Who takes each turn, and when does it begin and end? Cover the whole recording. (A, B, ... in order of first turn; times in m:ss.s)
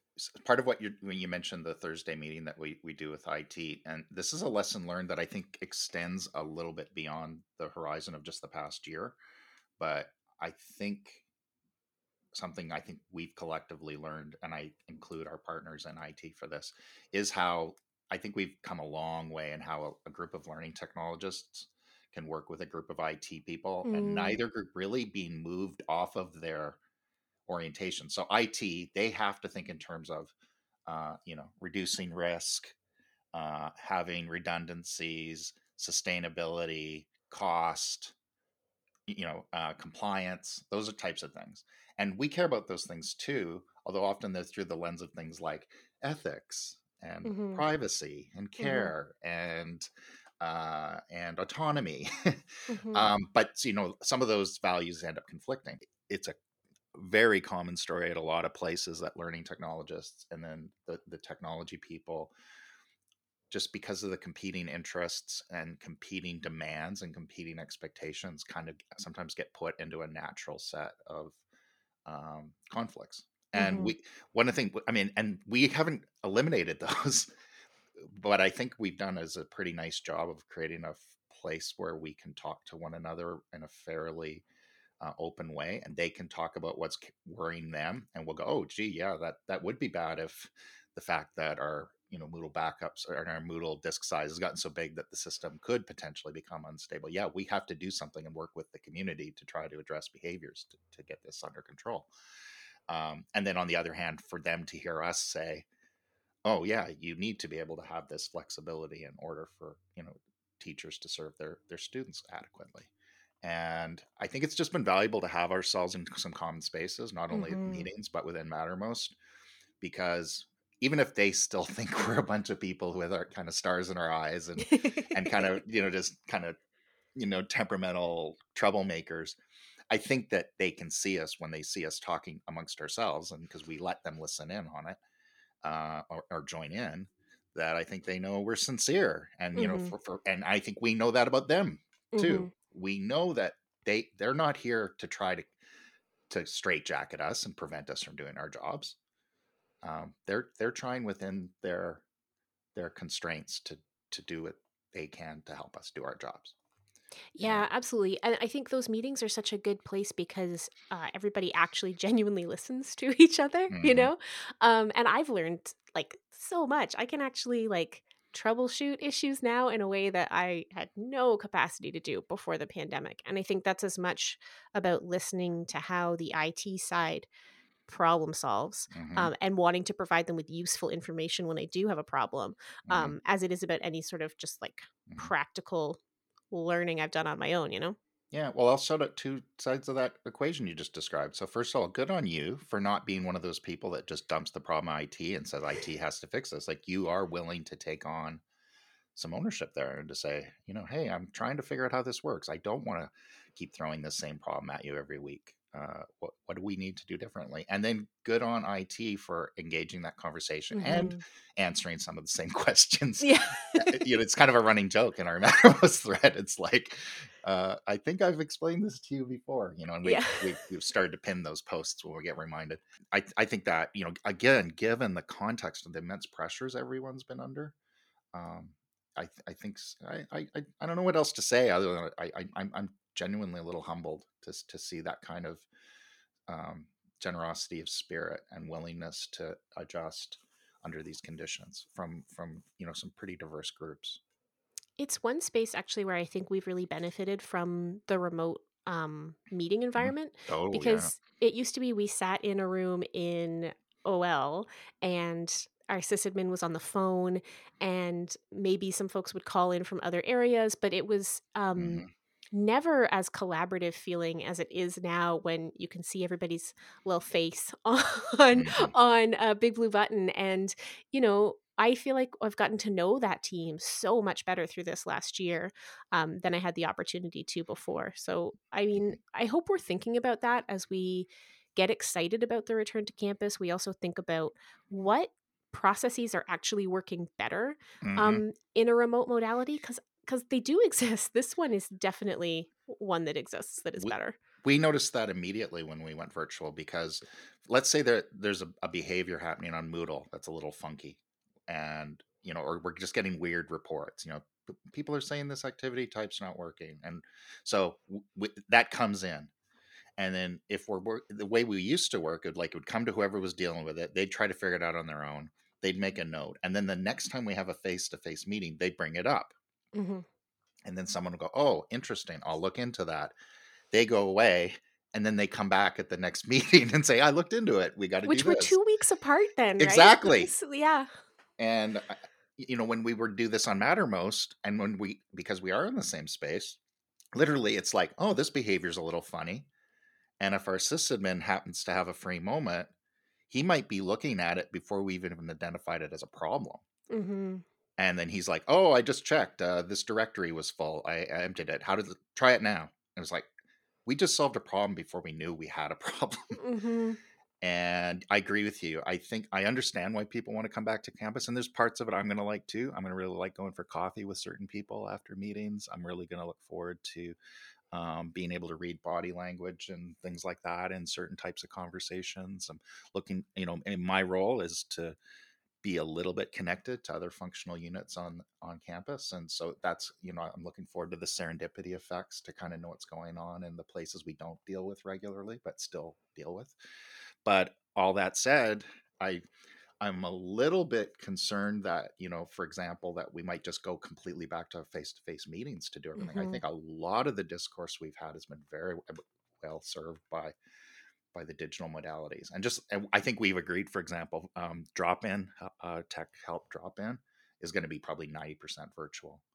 0:00.2-0:09.2 A
0:09.8-0:11.2 A
0:12.3-0:26.8 A
0:23.8-0:24.4 B
0:27.5-0:30.3 A
0:30.9-0:32.8 A
0:33.3-0:38.2 A
0:39.1-0:49.9 A
0:47.2-0:47.6 B
0:48.6-0:48.9 B
0:50.4-0:56.4 A
0:52.7-0:53.1 B
0:56.9-1:02.3 A
1:03.5-1:11.4 A
1:12.1-1:17.3 A
1:13.6-1:14.0 B
1:18.0-1:24.4 A
1:25.0-1:42.1 A
1:42.9-1:45.7 A
1:46.5-1:52.9 A
1:53.4-1:59.2 A
1:57.3-1:57.9 B
1:59.8-2:06.6 A
2:04.6-2:05.6 B
2:07.2-2:09.4 A
2:09.9-2:15.0 A
2:15.6-2:25.5 A
2:19.6-2:19.9 B
2:22.1-2:22.5 B
2:26.3-2:29.0 A
2:29.8-2:32.0 A
2:32.8-2:36.6 A
2:37.3-2:57.3 B
2:37.4-2:37.7 A
2:43.7-2:44.1 A
2:57.9-3:06.0 B
2:58.9-2:59.3 A
3:02.9-3:03.2 A
3:06.5-3:08.0 B
3:08.3-3:18.4 A
3:19.2-3:47.8 A
3:30.7-3:31.2 B
3:33.2-3:34.0 B
3:40.0-3:40.5 B
3:48.3-3:55.7 A
3:56.5-4:04.2 A
4:05.0-4:54.4 B
4:10.0-4:11.1 A
4:21.8-4:22.1 A
4:28.5-4:28.9 A
4:48.0-4:48.4 A
4:54.0-5:09.5 A
5:10.2-5:19.5 A
5:19.9-5:20.3 B
5:20.8-5:23.3 A
5:23.9-5:28.8 A
5:28.2-5:31.1 B
5:29.8-5:30.5 A
5:31.6-5:36.8 A
5:37.3-5:39.7 A
5:40.4-5:42.9 A
5:43.5-5:46.8 A
5:47.1-5:47.6 B
5:48.0-5:53.5 A
5:54.1-5:56.6 A
5:56.6-5:57.2 B
5:57.6-6:07.4 A
6:07.9-6:15.2 A
6:15.8-6:26.8 A
6:27.4-6:29.4 A
6:30.0-6:40.6 A
6:36.2-6:36.6 B
6:41.3-6:49.4 A